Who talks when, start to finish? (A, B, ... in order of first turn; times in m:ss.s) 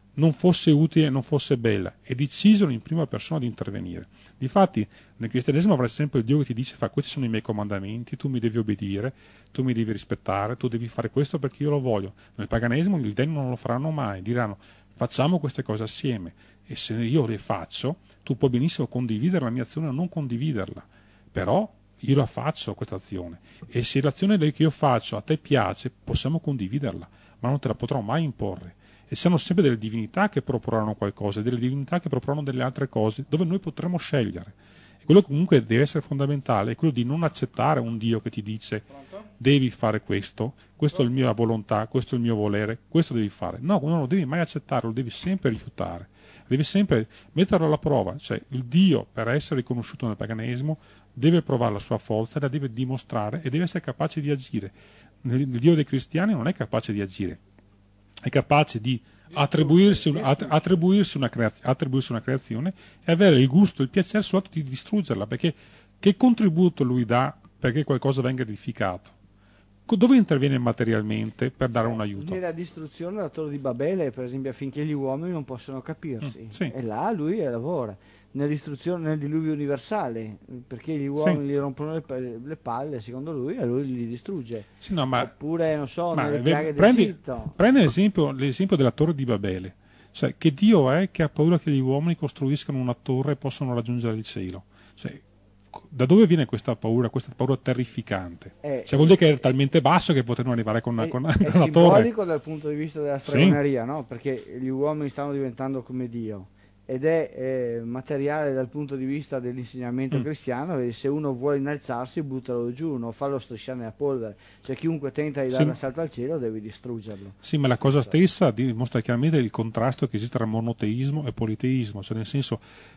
0:00.2-0:57.4 A
0:58.2-1:09.1 A
0:59.4-1:00.5 B
1:09.9-1:12.4 A
1:11.8-1:27.6 B
1:24.8-1:25.3 A
1:26.1-1:35.2 A
1:35.7-1:42.1 A
1:38.6-1:39.2 B
1:41.0-1:58.1 B
1:43.2-1:43.6 A
1:57.4-2:02.6 A